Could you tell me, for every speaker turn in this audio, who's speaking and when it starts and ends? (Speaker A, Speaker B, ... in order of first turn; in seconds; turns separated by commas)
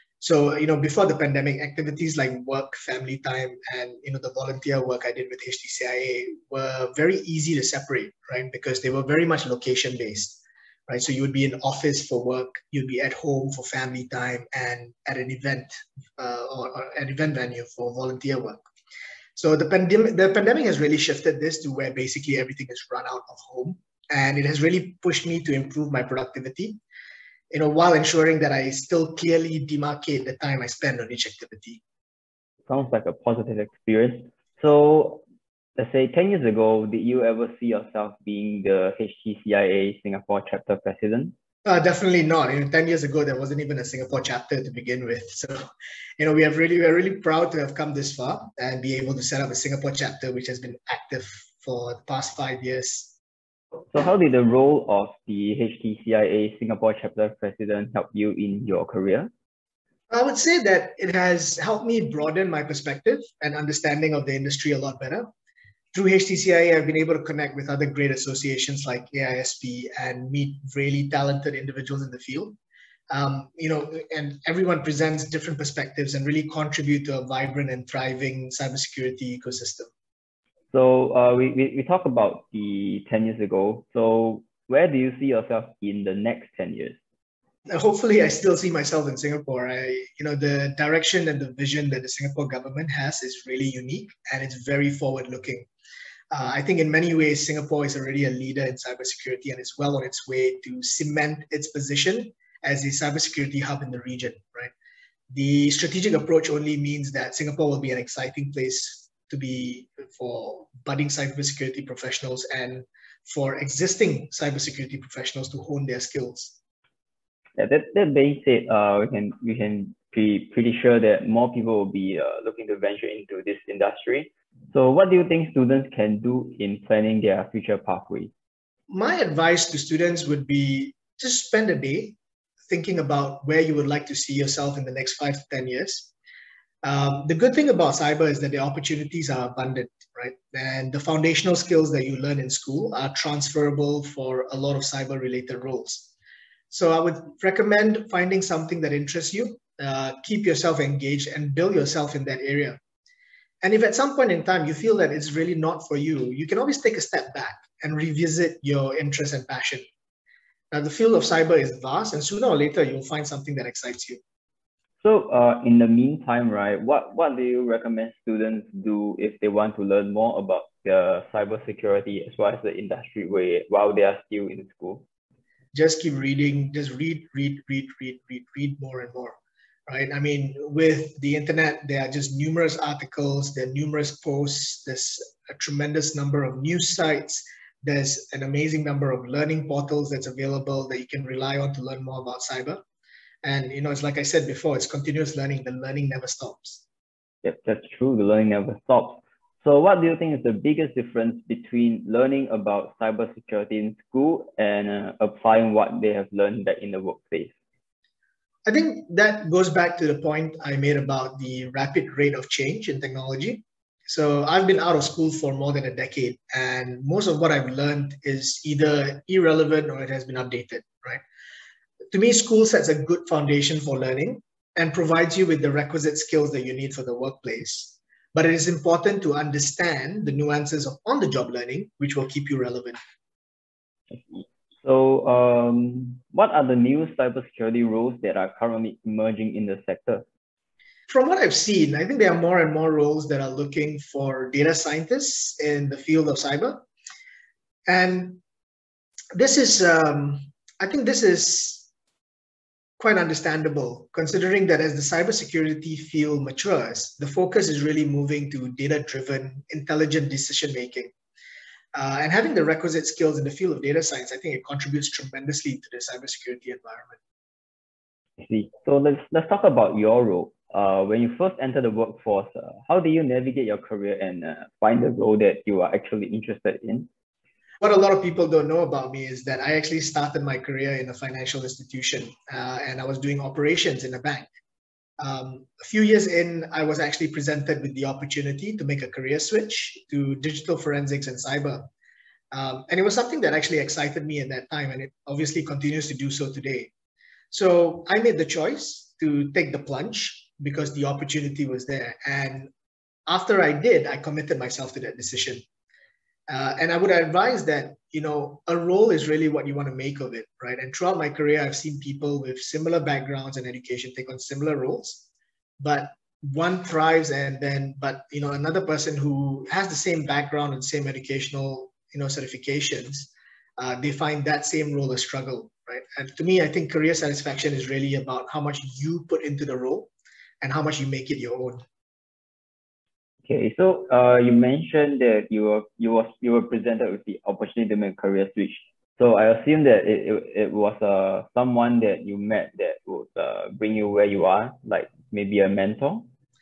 Speaker A: 0.2-18.7, Speaker A: 19.4-26.8, Speaker A: 27.5-31.8, Speaker B: 32.7-35.2, Speaker B: 35.8-41.3, Speaker A: 41.6-45.7, Speaker A: 46.2-53.1, Speaker B: 53.9-59.3, Speaker A: 60.1-65.3, Speaker A: 65.9-72.6, Speaker A: 73.1-79.9, Speaker B: 80.7-87.0, Speaker A: 87.7-95.7, Speaker A: 96.3-104.7, Speaker A: 105.3-116.5, Speaker B: 117.6-128.3, Speaker A: 128.9-132.2, Speaker A: 132.7-136.1, Speaker A: 136.8-146.1, Speaker A: 146.7-152.8, Speaker A: 153.6-159.9, Speaker A: 160.7-164.2, Speaker B: 165.0-175.1, Speaker A: 175.7-192.8, Speaker A: 193.4-196.8, Speaker B: 197.4-207.5, Speaker A: 208.7-221.2, Speaker A: 222.1-233.0, Speaker B: 234.1-240.2, Speaker A: 241.1-246.8, Speaker A: 247.9-248.4, Speaker A: 249.3-251.9, Speaker A: 253.0-261.1, Speaker A: 261.9-267.2, Speaker B: 268.4-277.1, Speaker A: 277.8-284.5, Speaker A: 285.2-291.9, Speaker A: 292.5-296.9, Speaker A: 297.5-302.7, Speaker A: 303.3-305.6, Speaker A: 306.5-315.2, Speaker A: 315.8-330.1, Speaker A: 330.6-331.8, Speaker B: 333.4-346.3